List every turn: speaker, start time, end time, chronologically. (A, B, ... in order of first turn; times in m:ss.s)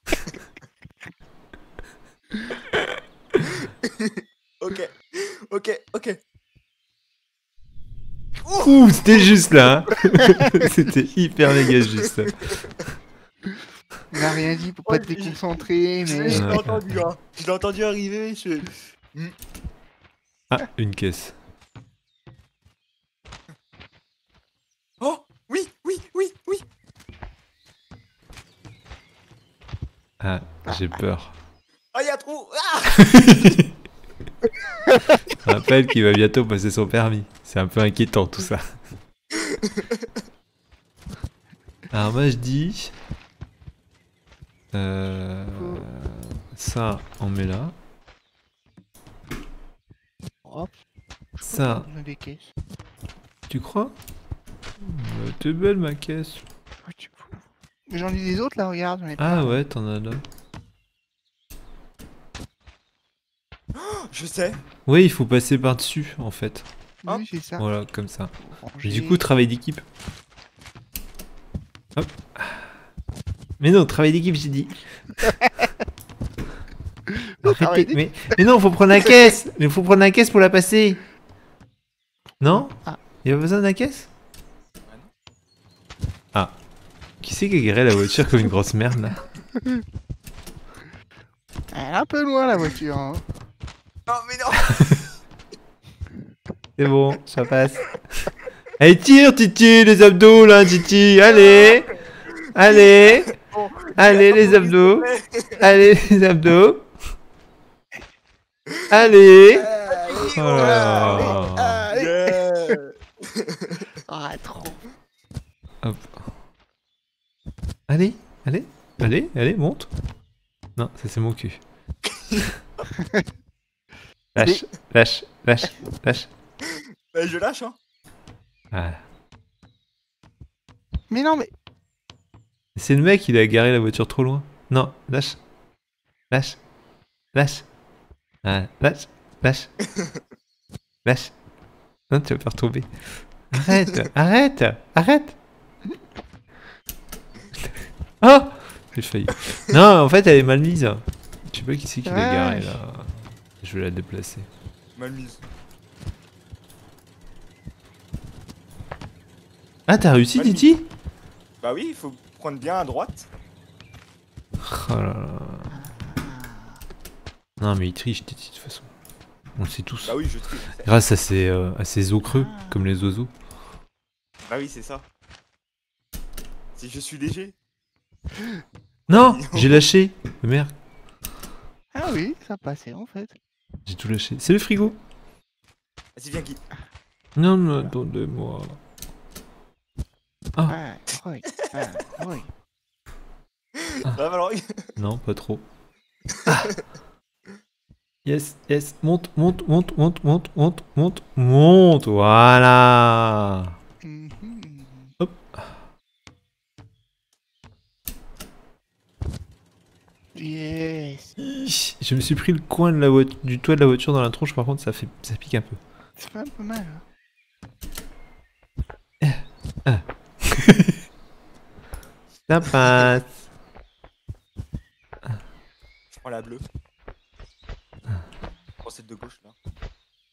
0:03.4-0:06.2 A
0:08.4-0:09.3 A
0:08.6-0:12.4 B
0:14.1-0:16.6 C
0:14.9-0:15.4 A
0:16.0-0:19.3 A
0:16.3-0:17.0 B
0:20.5-0:21.4 B
0:25.0-0:26.6 A
0:30.2-0:31.3 B
0:31.9-0:33.6 A
0:35.3-0:38.6 B
0:39.6-0:40.1 A
0:41.9-0:42.9 B
0:44.7-0:47.8 B
0:45.6-0:45.9 C
0:50.4-0:50.8 C
0:51.4-0:52.5 C
0:51.4-0:51.9 B
0:53.5-0:53.9 B
0:54.8-0:56.4 B
0:56.8-0:59.6 C
0:59.2-1:00.2 B
1:03.8-1:04.6 A
1:04.9-1:06.7 B
1:07.0-1:07.7 C
1:07.6-1:09.8 B
1:08.4-1:09.2 C
1:12.0-1:12.7 B
1:13.6-1:14.8 B
1:17.4-1:18.4 C
1:17.4-1:21.0 B
1:22.4-1:24.1 B
1:22.7-1:23.0 C
1:27.2-1:29.2 B
1:31.7-1:33.2 C
1:34.1-1:35.1 A
1:36.8-1:38.3 B
1:38.8-1:41.9 B
1:41.2-1:45.7 A
1:42.5-1:43.3 B
1:44.0-1:45.1 B
1:45.6-1:46.9 B
1:48.9-1:49.7 B
1:49.5-1:52.4 C
1:49.9-1:53.9 A
1:50.3-1:51.9 B
1:54.1-1:54.8 C
1:55.8-1:56.2 B
1:57.9-1:59.9 B
2:00.8-2:01.6 B
2:02.1-2:02.5 A
2:03.0-2:03.2 C
2:04.3-2:06.3 B
2:04.4-2:04.6 C
2:06.7-2:07.8 A
2:08.7-2:09.0 B
2:11.1-2:11.5 C
2:12.8-2:15.4 B
2:16.3-2:16.6 B
2:17.3-2:17.7 B
2:18.4-2:19.7 B
2:21.0-2:21.4 B
2:22.1-2:25.4 B
2:28.2-2:34.5 B
2:32.0-2:32.8 C
2:35.0-2:35.4 A
2:39.9-2:40.8 B
2:40.3-2:40.7 A
2:41.6-2:43.3 A
2:44.6-2:45.7 B
2:45.7-2:46.8 C
2:47.6-2:48.9 B
2:49.6-2:50.2 B
2:50.0-2:51.0 A
2:50.8-2:53.3 B
2:52.2-2:52.8 C
2:54.5-2:55.1 A
2:56.8-2:57.6 A
2:59.1-3:00.7 B
2:59.1-2:59.8 A
3:01.9-3:03.4 C
3:03.8-3:05.0 B
3:06.2-3:06.6 A
3:07.4-3:08.8 B
3:10.7-3:12.5 C
3:11.1-3:11.9 A
3:13.8-3:15.0 A
3:15.0-3:15.6 B
3:16.4-3:16.8 A
3:18.2-3:23.7 B
3:24.0-3:25.2 C
3:25.2-3:25.6 B
3:30.3-3:31.3 C
3:31.4-3:35.8 B
3:36.2-3:37.0 C
3:39.2-3:40.9 B
3:42.5-3:43.4 B
3:46.1-3:46.6 A
3:48.8-3:49.6 A